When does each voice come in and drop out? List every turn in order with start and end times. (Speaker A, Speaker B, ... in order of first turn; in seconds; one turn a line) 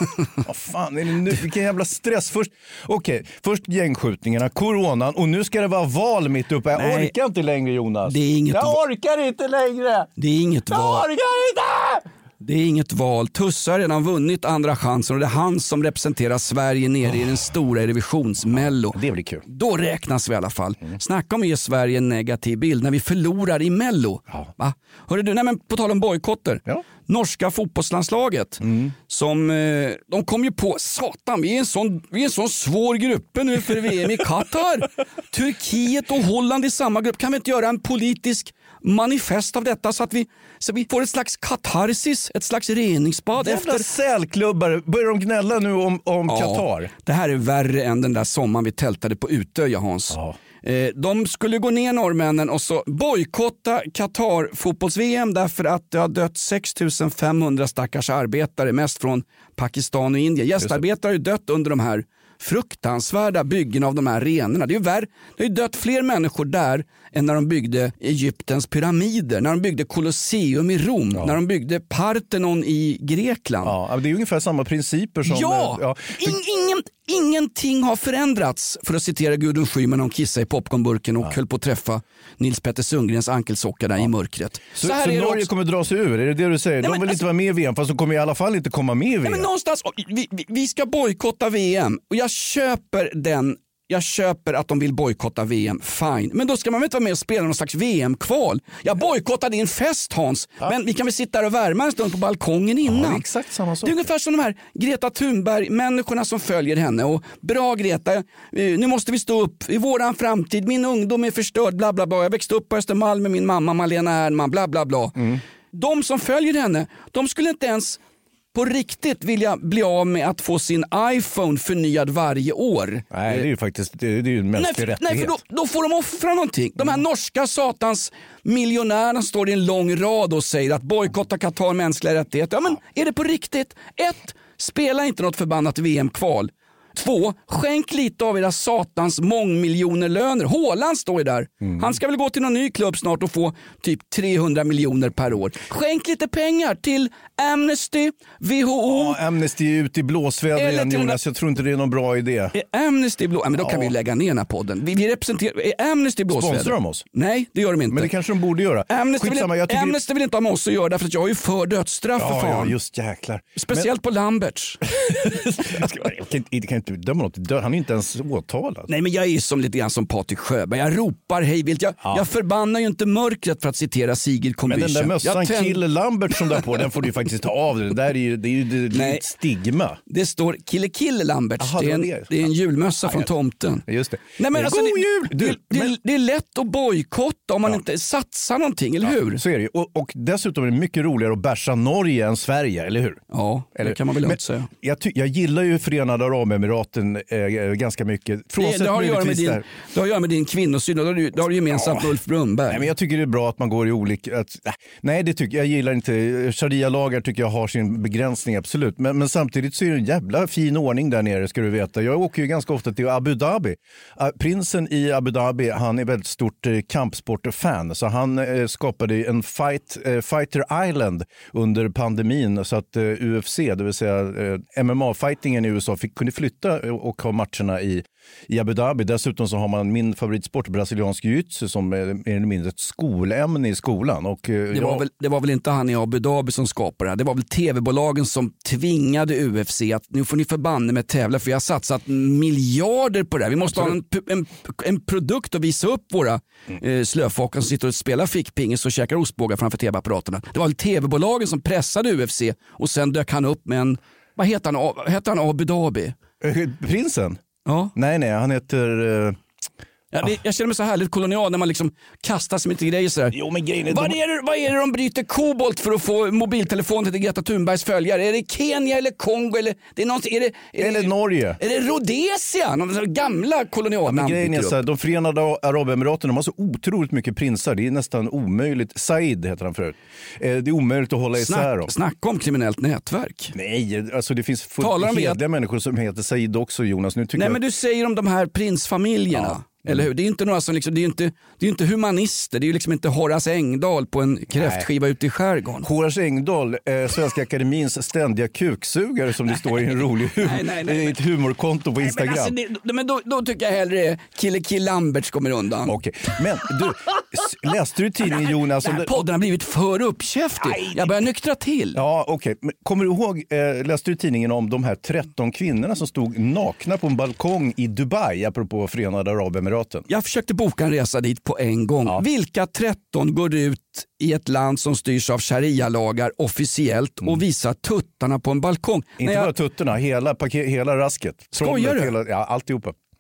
Speaker A: 0.4-10.1
Speaker B: 6.8-7.1
Speaker B: 8.1-8.8
Speaker B: 10.2-11.1
Speaker A: 10.7-12.1
Speaker B: 12.4-43.9
Speaker A: 18.5-19.4
Speaker A: 28.6-28.9
Speaker A: 43.4-46.9
Speaker B: 46.3-73.8
Speaker A: 50.1-50.4
Speaker A: 71.1-71.4
Speaker A: 73.6-76.4
Speaker B: 75.3-85.5
Speaker A: 84.8-89.5
Speaker B: 86.8-87.2
Speaker B: 89.3-103.2
Speaker A: 102.9-104.1
Speaker B: 103.8-118.0
Speaker A: 115.2-115.4
Speaker B: 118.5-123.5
Speaker A: 123.1-125.4
Speaker B: 124.5-149.2
Speaker A: 141.6-141.9
Speaker A: 148.9-152.6
Speaker B: 150.6-151.2
Speaker B: 152.5-158.1
Speaker A: 153.6-153.9
Speaker A: 156.3-157.1
Speaker A: 157.9-160.0
Speaker B: 158.9-162.8
Speaker A: 162.2-163.9
Speaker B: 163.6-164.8
Speaker A: 164.9-168.9
Speaker B: 168.9-176.6
Speaker A: 172.0-172.3
Speaker A: 174.7-180.0
Speaker B: 178.9-179.3
Speaker B: 180.1-183.8
Speaker A: 181.6-182.5
Speaker A: 183.9-186.0
Speaker B: 184.4-189.4
Speaker A: 189.0-193.2
Speaker B: 193.3-194.7
Speaker A: 193.8-199.7
Speaker B: 198.6-202.9
Speaker A: 201.7-202.1
Speaker A: 202.7-235.1
Speaker B: 234.7-256.2
Speaker A: 243.7-244.0
Speaker A: 256.4-257.4
Speaker B: 257.7-257.9
Speaker A: 257.9-259.4
Speaker B: 260.1-263.4
Speaker A: 263.3-264.2
Speaker B: 263.9-274.8
Speaker A: 270.8-271.6
Speaker A: 274.1-281.9
Speaker B: 281.4-283.5
Speaker A: 283.5-287.6
Speaker B: 284.8-285.4
Speaker B: 287.4-295.9
Speaker A: 289.3-290.1
Speaker A: 294.5-294.9
Speaker A: 295.8-302.6
Speaker B: 300.4-301.2
Speaker B: 302.0-305.9
Speaker A: 305.9-309.2
Speaker B: 308.2-312.0
Speaker A: 310.6-311.2
Speaker A: 311.9-320.1
Speaker B: 320.1-329.5
Speaker A: 329.2-332.9
Speaker B: 331.5-332.1